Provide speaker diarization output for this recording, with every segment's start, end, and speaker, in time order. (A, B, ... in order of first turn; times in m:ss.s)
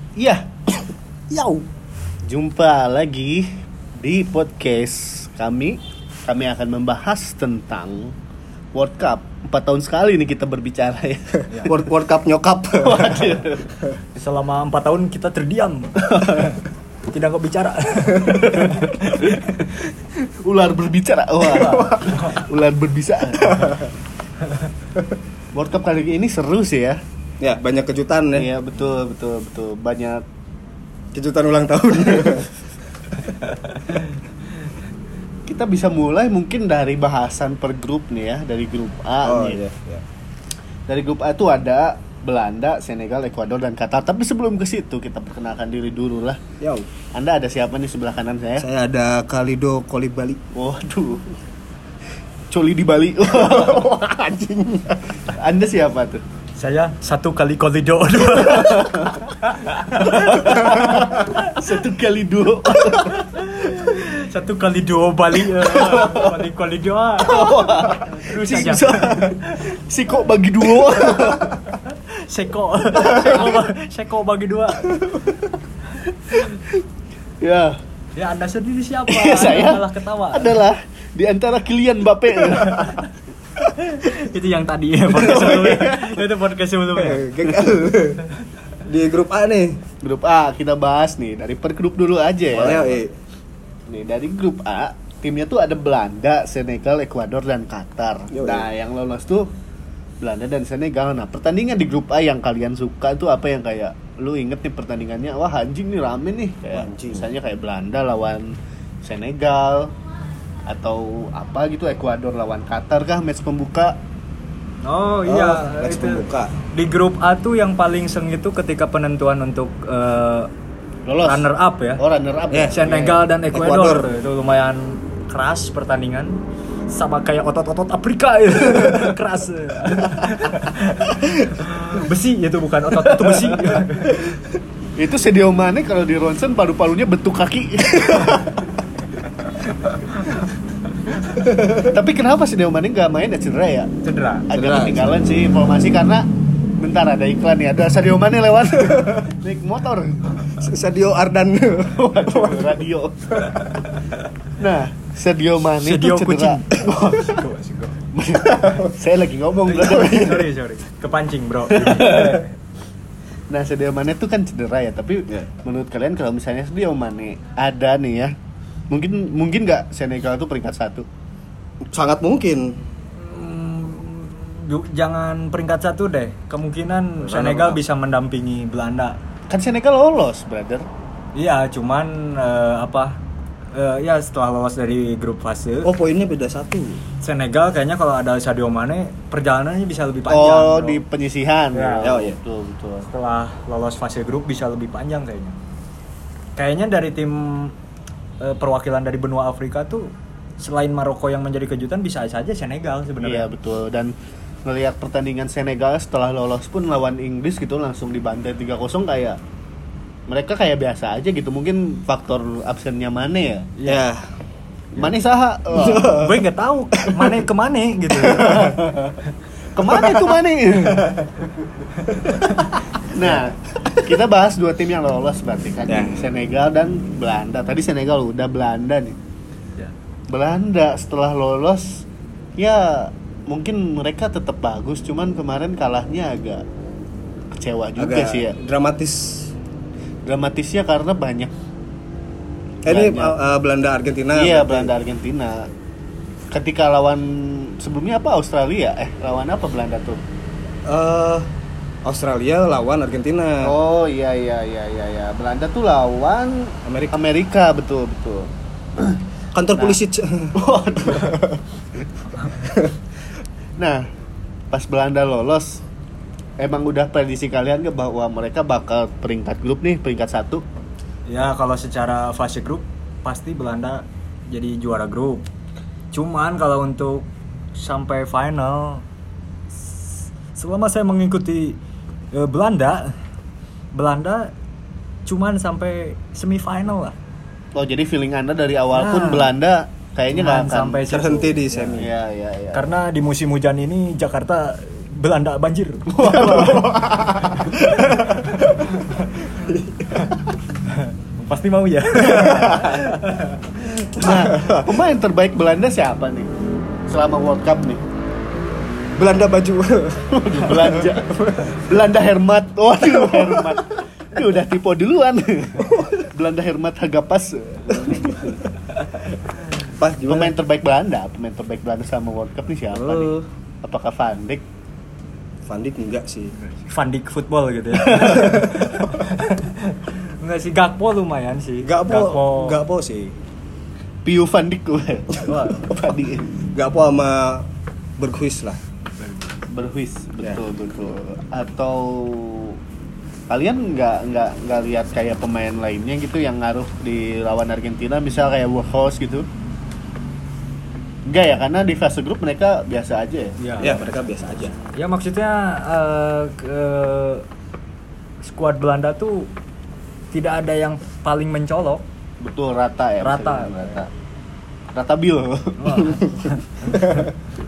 0:00.2-0:00.5 A
0:01.3-0:01.6 B
0:02.2-0:08.2 A
0:08.7-0:11.8 A
0:11.7-0:13.2 B
0:12.8-0:13.7 A
0:14.1-0:19.5 C
0:16.0-0:16.5 A
0:18.5-0:23.7 A
0:21.5-0:22.3 B
0:23.4-0:23.9 B
0:25.5-0:27.0 A
0:27.4-0:28.5 B
0:28.3-0:30.2 A
0:31.1-0:32.5 B
0:33.5-0:34.0 C
0:35.5-0:39.6 A
0:39.2-0:40.0 B
0:40.9-0:46.4 A
0:46.6-0:46.9 B
0:47.1-0:48.6 A
0:48.6-0:50.4 B
0:50.5-0:51.3 A
0:52.5-0:54.0 A
0:53.3-0:55.0 B
0:55.3-0:56.2 A
0:56.6-1:01.5 C
0:58.4-0:59.2 A
0:59.9-1:03.2 A
1:03.1-1:09.4 C
1:05.7-1:06.3 A
1:07.2-1:11.5 A
1:11.8-1:15.0 C
1:17.4-1:17.8 A
1:18.2-1:20.6 C
1:19.1-1:23.0 A
1:22.6-1:23.0 C
1:23.7-1:27.3 C
1:25.2-1:25.8 B
1:25.4-1:25.8 A
1:27.0-1:28.3 B
1:28.8-1:29.8 B
1:30.0-1:33.0 A
1:32.5-1:33.1 B
1:33.9-1:39.5 A
1:38.3-1:38.7 B
1:40.2-1:49.9 A
1:46.7-1:47.3 B
1:50.7-1:54.0 A
1:54.8-2:00.5 C
1:55.3-1:56.5 B
2:01.1-2:03.2 A
2:01.2-2:02.0 C
2:02.5-2:04.1 B
2:02.7-2:14.4 C
2:12.9-2:14.0 A
2:15.0-2:18.7 A
2:21.4-2:21.9 B
2:21.8-2:23.9 A
2:24.0-2:24.5 C
2:24.5-2:30.5 A
2:24.5-2:25.1 B
2:30.5-2:32.8 B
2:31.8-2:33.6 A
2:34.6-2:37.4 A
2:35.8-2:38.0 C
2:38.1-2:40.5 A
2:38.6-2:38.9 B
2:39.6-2:42.5 C
2:41.8-2:42.4 A
2:43.5-2:48.3 A
2:48.9-2:51.0 A
2:51.9-2:52.8 B
2:53.1-2:59.2 C
2:57.2-2:57.8 B
2:59.5-3:00.8 A
3:01.3-3:03.2 C
3:03.7-3:05.9 C
3:05.8-3:07.0 B
3:07.2-3:11.0 C
3:10.3-3:13.1 A
3:11.7-3:12.1 C
3:12.0-3:12.4 B
3:13.0-3:15.6 C
3:16.6-3:17.7 C
3:18.4-3:23.5 C
3:23.2-3:24.1 A
3:24.6-3:29.4 A
3:30.3-3:33.7 A
3:33.8-3:34.0 C
3:33.8-3:34.3 B
3:34.9-3:36.2 A
3:35.7-3:36.4 B
3:36.1-3:38.8 C
3:37.0-3:37.4 B
3:38.3-3:38.6 B
3:38.3-3:39.2 A
3:39.7-3:41.2 A
3:39.9-3:40.3 B
3:42.0-3:42.6 C
3:43.1-3:49.2 A
3:45.9-3:46.2 B
3:50.3-3:52.0 A
3:52.6-3:56.6 A
3:57.5-3:58.6 A
3:58.0-3:59.5 B
4:00.2-4:01.5 A
4:02.8-4:03.4 A
4:02.8-4:04.9 B
4:04.3-4:05.7 A
4:06.5-4:10.2 A
4:10.9-4:11.5 B
4:12.0-4:13.7 B
4:13.6-4:19.2 A
4:16.8-4:17.1 B
4:19.5-4:20.6 B
4:20.5-4:21.4 A
4:21.1-4:21.6 B
4:22.6-4:22.9 B
4:23.8-4:24.0 A
4:24.7-4:25.8 A
4:26.6-4:30.6 A
4:31.3-4:35.5 C
4:36.1-4:39.0 C
4:40.5-4:41.8 C
4:42.3-4:43.1 C
4:43.9-4:44.5 C
4:45.2-4:47.2 C
4:47.7-4:51.0 A
4:48.9-4:49.6 C
4:50.3-4:52.0 C
4:51.1-4:52.1 B
4:51.9-4:52.8 A
4:52.7-4:56.5 C
4:56.1-4:57.1 A
4:56.4-4:58.9 B
4:57.4-4:59.4 C
4:59.5-5:00.3 B
5:00.9-5:03.6 C
5:02.2-5:03.0 B
5:04.1-5:04.9 B
5:04.1-5:06.5 A
5:07.1-5:08.0 A
5:09.2-5:11.9 B
5:10.3-5:18.6 A
5:13.1-5:13.8 B
5:15.9-5:16.2 B
5:19.9-5:20.5 B
5:20.2-5:24.6 A
5:22.9-5:23.5 B
5:25.6-5:26.5 B
5:26.7-5:32.8 C
5:27.9-5:28.5 A
5:31.8-5:33.4 B
5:34.2-5:36.6 A
5:35.4-5:35.9 C
5:36.7-5:37.6 B
5:38.2-5:38.8 B
5:39.2-5:39.5 C
5:39.7-5:42.8 A
5:43.5-5:49.4 A
5:51.3-5:53.6 A
5:53.6-5:54.0 C
5:53.8-5:54.8 B
5:54.9-5:57.4 C
5:58.4-5:59.5 C
6:00.3-6:02.0 C
6:02.4-6:04.1 A
6:03.2-6:03.9 C
6:04.9-6:06.2 A
6:05.8-6:07.2 C
6:06.1-6:07.3 B